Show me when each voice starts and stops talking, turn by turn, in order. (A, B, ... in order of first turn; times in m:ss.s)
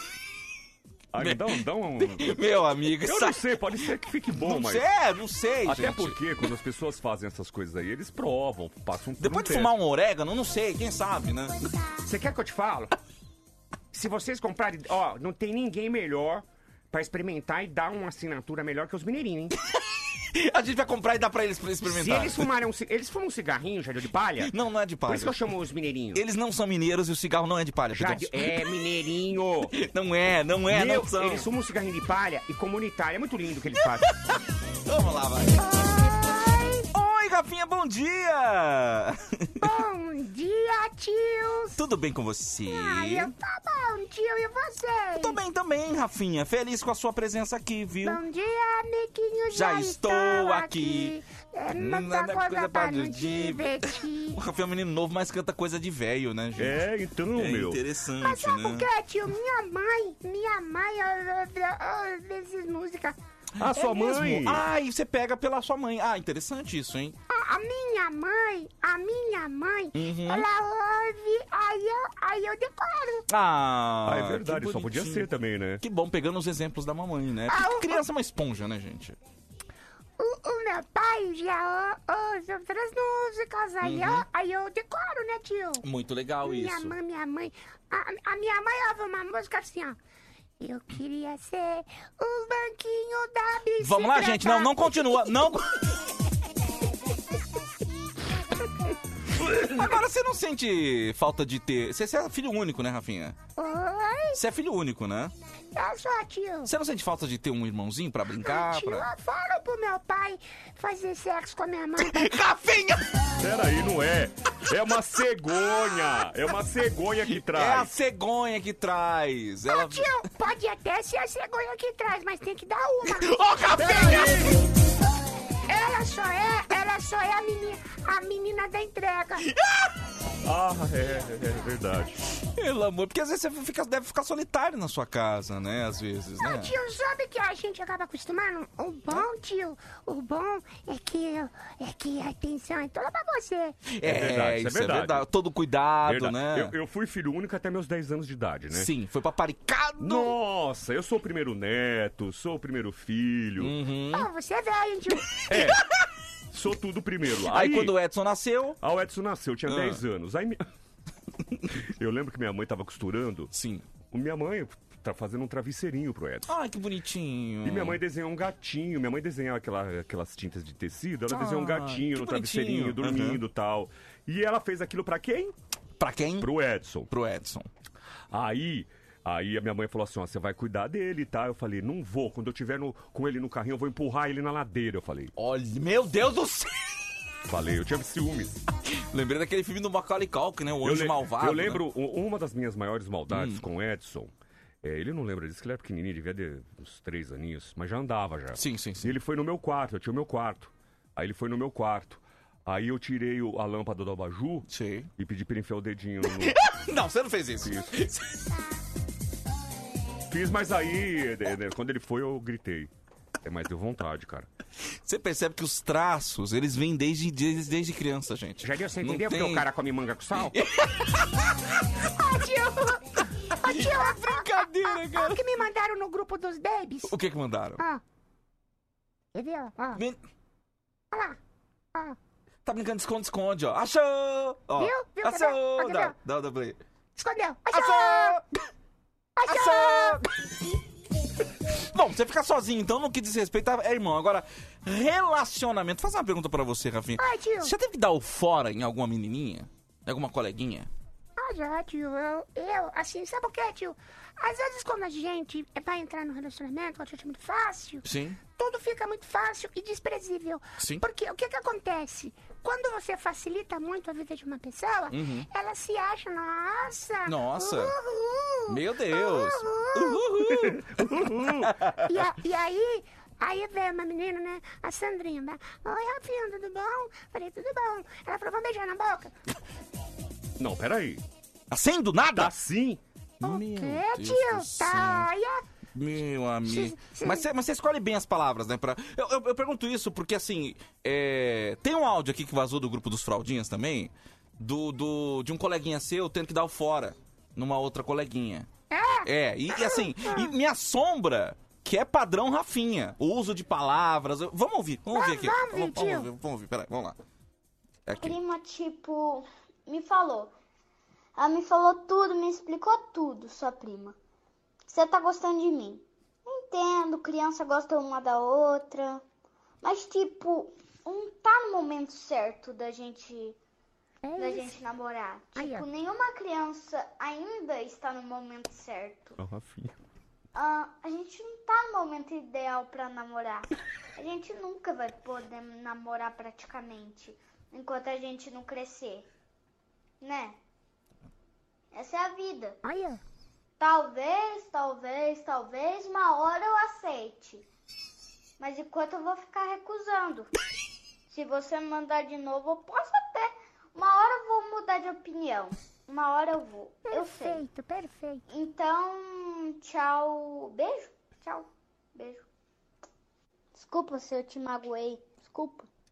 0:01.1-0:02.4 A
0:01.2-0:03.4 B
0:03.0-0:04.8 A
0:04.4-0:06.2 B
0:05.6-0:09.7 A
0:09.2-0:11.7 B
0:12.0-0:13.0 C
0:13.9-0:19.5 C
0:20.3-0:22.5 B
0:21.8-0:24.5 C
0:24.4-0:25.4 B
0:25.1-0:26.2 C
0:26.1-0:28.6 B
0:27.9-0:29.7 C
0:29.7-0:31.5 B
0:30.7-0:34.1 C
0:34.3-0:35.6 B
0:35.6-0:36.9 D
0:36.9-0:39.7 B
0:39.6-0:41.8 D
0:41.8-0:43.3 B
0:42.7-0:45.4 D
0:45.2-0:48.2 B
0:48.0-0:54.4 D
0:49.5-0:51.1 B
0:51.8-0:56.8 B
0:56.6-0:57.8 A
0:57.4-0:58.9 B
0:58.2-1:03.2 D
1:03.6-1:04.6 A
1:03.7-1:07.2 B
1:07.3-1:13.2 D
1:09.9-1:10.5 B
1:13.3-1:15.3 B
1:14.0-1:15.8 A
1:15.8-1:19.2 B
1:17.5-1:18.0 D
1:20.2-1:25.8 D
1:23.8-1:24.3 B
1:25.8-1:27.0 B
1:26.4-1:30.0 D
1:30.6-1:35.3 D
1:33.8-1:35.7 B
1:38.6-1:38.9 D
1:39.3-1:43.4 B
1:43.6-1:44.4 D
1:44.3-1:45.3 B
1:45.8-1:46.7 D
1:46.6-1:49.1 B
1:48.4-1:52.3 D
1:52.0-1:53.1 B
1:53.4-1:57.9 A
1:57.3-2:00.1 B
1:59.7-2:04.5 D
2:03.1-2:04.6 B
2:05.7-2:09.5 D
2:10.4-2:12.2 A
2:12.6-2:16.7 B
2:16.4-2:23.9 D
2:23.9-2:26.8 B
2:24.0-2:25.2 A
2:26.0-2:28.9 A
2:28.7-2:30.4 B
2:30.0-2:33.7 A
2:33.6-2:34.3 B
2:34.1-2:35.4 D
2:35.5-2:35.8 A
2:36.5-2:37.9 A
2:37.4-2:38.8 B
2:38.8-2:40.6 A
2:39.6-2:40.0 B
2:41.8-2:43.5 A
2:43.5-2:43.9 B
2:44.1-2:46.5 A
2:46.5-2:48.0 B
2:47.6-2:55.5 A
2:51.3-2:53.4 B
2:56.0-2:56.5 B
2:56.4-2:57.1 A
2:57.1-2:57.7 B
2:58.3-3:05.3 A
3:05.4-3:06.9 B
3:07.5-3:08.6 A
3:08.9-3:11.8 B
3:10.8-3:14.3 A
3:13.3-3:13.6 B
3:14.8-3:26.6 A
3:18.6-3:19.1 B
3:24.7-3:25.1 B
3:26.3-3:28.5 B
3:27.6-3:27.9 A
3:30.3-3:32.9 A
3:33.4-3:34.5 A
3:35.0-3:39.7 B
3:38.6-3:40.6 C
3:40.4-3:41.4 B
3:42.1-3:43.0 D
3:43.6-3:47.1 D
3:43.6-3:45.4 B
3:47.1-3:47.8 B
3:49.3-3:50.0 D
3:51.1-3:51.4 D
3:52.6-3:56.8 B
3:54.8-3:56.1 D
3:57.2-3:58.4 D
3:57.7-3:58.4 B
3:59.4-4:00.3 D
3:59.5-4:00.2 B
4:01.9-4:10.9 B
4:07.2-4:07.7 D
4:11.4-4:18.0 D
4:18.0-4:18.4 B
4:18.6-4:30.3 D
4:20.8-4:21.0 B
4:25.1-4:25.5 B
4:27.3-4:27.9 B
4:28.7-4:32.1 B
4:30.7-4:31.7 A
4:32.0-4:39.3 D
4:40.6-4:41.2 A
4:41.7-4:42.5 B
4:42.4-4:43.0 A
4:43.4-4:45.6 D
4:43.4-4:45.3 B
4:45.9-4:58.7 B
4:46.6-4:47.5 D
4:58.9-5:00.5 D
4:59.2-5:07.2 B
5:05.1-5:06.3 D
5:08.1-5:08.4 B
5:08.2-5:10.5 E
5:11.4-5:14.1 E
5:14.9-5:19.2 E
5:19.8-5:23.6 E
5:24.2-5:24.7 D
5:24.4-5:29.4 E
5:25.6-5:25.9 D
5:29.4-5:30.0 A
5:30.6-5:39.3 E
5:40.2-5:40.6 E
5:41.9-5:42.8 E
5:42.8-5:43.2 D
5:43.8-5:47.6 E
5:48.6-5:50.5 E
5:51.3-5:57.6 E
5:57.1-5:58.4 D
5:58.5-6:02.4 E
6:03.7-6:05.9 E